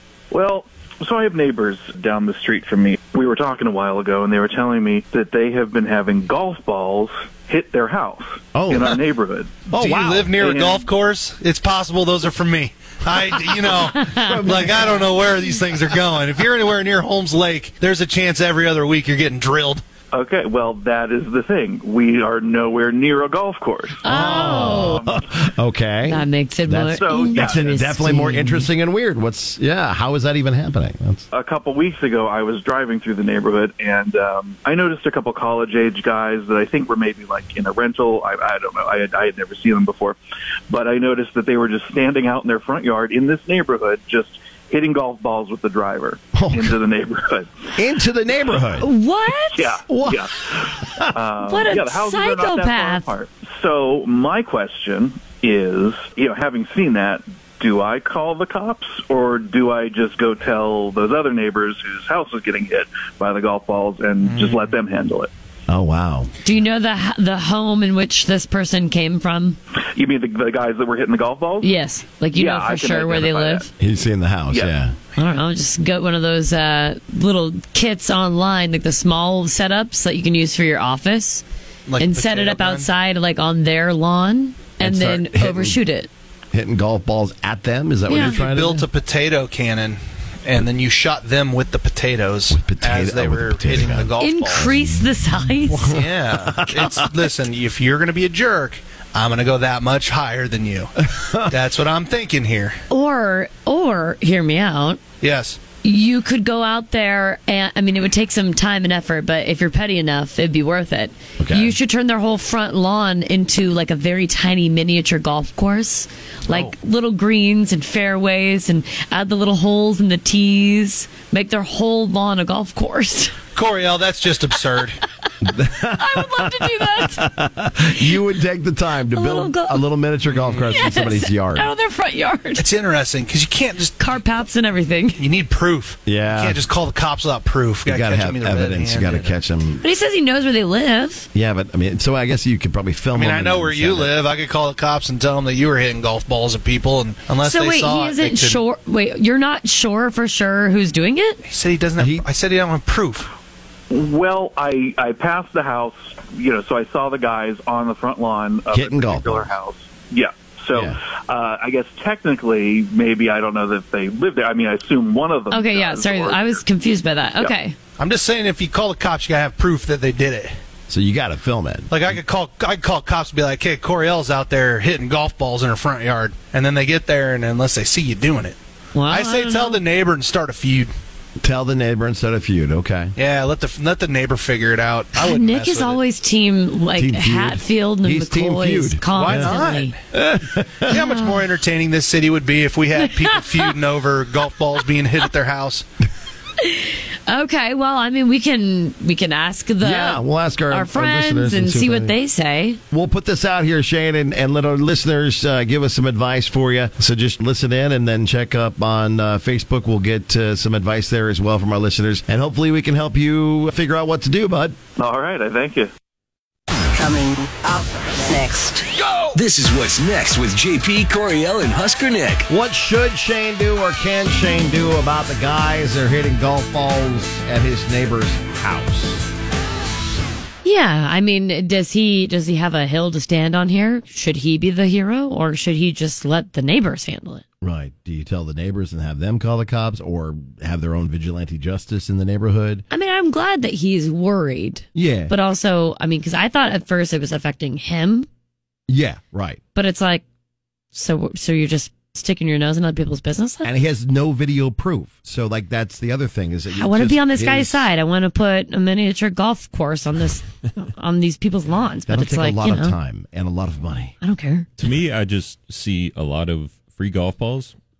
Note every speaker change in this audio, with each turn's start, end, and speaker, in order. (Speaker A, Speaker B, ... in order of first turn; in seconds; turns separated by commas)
Speaker A: 0.3-9.7, Speaker B: 8.5-9.0, Speaker B: 9.7-10.5, Speaker C: 9.7-19.8, Speaker A: 10.3-10.9, Speaker D: 14.0-14.4, Speaker B: 14.1-15.1, Speaker A: 20.1-25.2, Speaker D: 24.0-25.1, Speaker B: 24.0-31.3, Speaker D: 26.0-28.7, Speaker A: 26.9-27.9, Speaker A: 31.3-40.2, Speaker A: 40.7-47.7, Speaker B: 46.3-46.8, Speaker B: 47.8-48.9, Speaker D: 48.8-49.8, Speaker A: 49.5-65.3, Speaker B: 49.9-51.1, Speaker D: 51.4-53.1, Speaker C: 64.3-64.6, Speaker B: 65.7-66.3, Speaker D: 66.4-69.6, Speaker A: 69.9-71.7, Speaker D: 71.6-73.7, Speaker A: 72.3-73.7, Speaker B: 73.8-75.0, Speaker A: 74.5-74.8, Speaker D: 75.2-81.4, Speaker C: 81.9-82.9, Speaker D: 82.0-86.1, Speaker B: 84.8-85.8, Speaker B: 86.5-88.9, Speaker D: 88.1-88.4, Speaker C: 88.1-94.7, Speaker B: 92.5-94.1, Speaker D: 94.2-96.0, Speaker B: 95.7-97.2, Speaker C: 95.8-102.8, Speaker B: 101.2-101.5, Speaker D: 102.9-105.0, Speaker C: 105.2-105.6, Speaker D: 105.8-123.4, Speaker B: 111.4-111.7, Speaker C: 123.5-125.0, Speaker B: 125.4-131.7, Speaker D: 125.9-127.3, Speaker D: 129.1-129.8, Speaker D: 130.6-132.7, Speaker C: 132.6-134.0, Speaker D: 134.0-135.2, Speaker C: 135.2-139.3, Speaker B: 136.1-136.6, Speaker B: 137.9-139.8, Speaker D: 139.8-141.3, Speaker B: 141.3-144.2, Speaker C: 143.1-148.6, Speaker D: 147.4-151.4, Speaker C: 151.5-153.3, Speaker B: 152.0-152.2, Speaker A: 153.9-166.6, Speaker B: 158.7-159.5, Speaker D: 165.5-167.8, Speaker C: 168.0-170.5, Speaker B: 170.9-172.2, Speaker C: 171.9-180.9, Speaker D: 178.9-179.8, Speaker B: 181.4-183.2, Speaker C: 183.2-186.0, Speaker D: 185.2-189.9, Speaker B: 187.0-189.5, Speaker C: 189.1-189.9, Speaker B: 190.1-190.9, Speaker C: 190.8-195.9, Speaker D: 190.9-191.4, Speaker D: 193.0-193.7, Speaker D: 196.6-202.8, Speaker B: 199.8-202.2, Speaker B: 202.9-214.8, Speaker A: 215.0-215.9, Speaker E: 219.3-222.5, Speaker B: 222.5-229.3, Speaker D: 230.6-237.4, Speaker B: 237.6-242.8, Speaker D: 242.9-248.3, Speaker B: 244.9-245.3, Speaker B: 248.9-249.6, Speaker D: 249.8-250.2, Speaker D: 250.9-253.7, Speaker B: 253.6-257.9, Speaker D: 256.7-263.0, Speaker B: 262.1-264.1, Speaker D: 264.2-264.7, Speaker F: 264.8-267.7